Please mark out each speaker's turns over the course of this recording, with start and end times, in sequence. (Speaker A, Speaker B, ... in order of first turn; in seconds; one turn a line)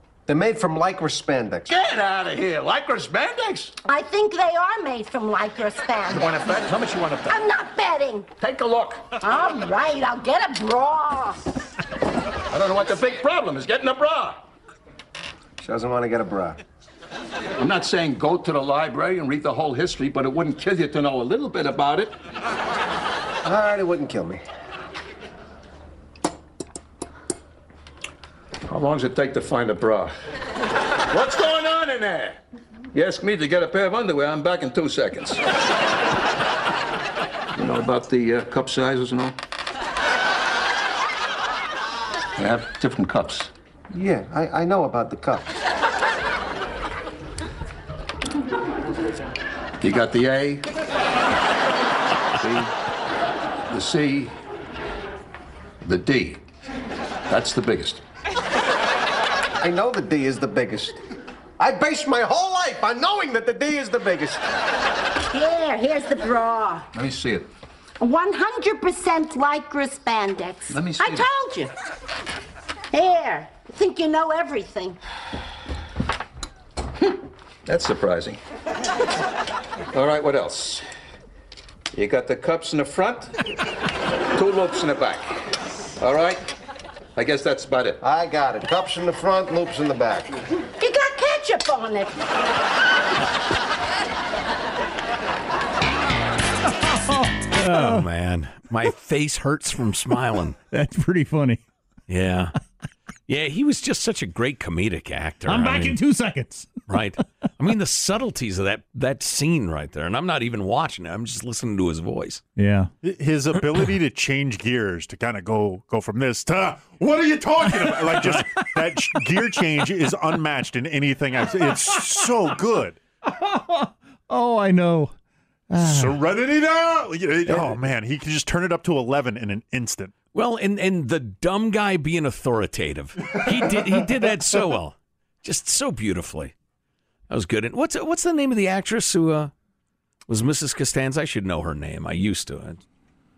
Speaker A: 0.3-1.7
Speaker B: 1.7-3.7
Speaker C: 3.9-6.6
Speaker B: 6.1-7.4
Speaker C: 7.3-8.3
Speaker B: 8.4-9.2
Speaker C: 9.2-11.4
Speaker B: 12.5-14.4
Speaker A: 15.6-16.6
Speaker B: 17.6-22.1
Speaker A: 23.4-24.4
Speaker B: 28.6-30.1
Speaker B: 31.1-32.4
Speaker B: 32.9-35.4
Speaker B: 37.5-39.4
Speaker B: 42.4-43.5
Speaker A: 43.9-45.5
Speaker B: 49.8-50.7
Speaker B: 52.4-52.7
Speaker B: 53.7-54.3
Speaker B: 55.8-56.4
Speaker B: 57.3-58.0
Speaker A: 59.6-61.0
Speaker A: 61.6-64.4
Speaker C: 65.3-66.9
Speaker B: 67.0-67.5
Speaker C: 68.0-71.7
Speaker B: 70.7-71.3
Speaker C: 72.9-75.0
Speaker B: 77.7-78.4
Speaker B: 79.9-80.8
Speaker B: 81.9-83.3
Speaker B: 84.3-85.3
Speaker B: 86.0-86.4
Speaker B: 87.2-88.0
Speaker A: 88.0-90.3
Speaker C: 90.8-92.1
Speaker D: 96.8-98.0
Speaker E: 97.5-100.6
Speaker D: 100.7-101.6
Speaker E: 102.1-102.5
Speaker E: 103.3-106.0
Speaker D: 105.5-106.7
Speaker E: 106.9-112.4
Speaker D: 112.6-112.9
Speaker F: 113.0-123.0
Speaker D: 117.8-118.5
Speaker D: 121.7-122.3
Speaker D: 123.2-125.1
Speaker D: 125.7-126.2
Speaker F: 125.8-130.1
Speaker D: 127.5-127.8
Speaker E: 130.3-136.5
Speaker E: 137.3-139.5
Speaker E: 140.3-142.8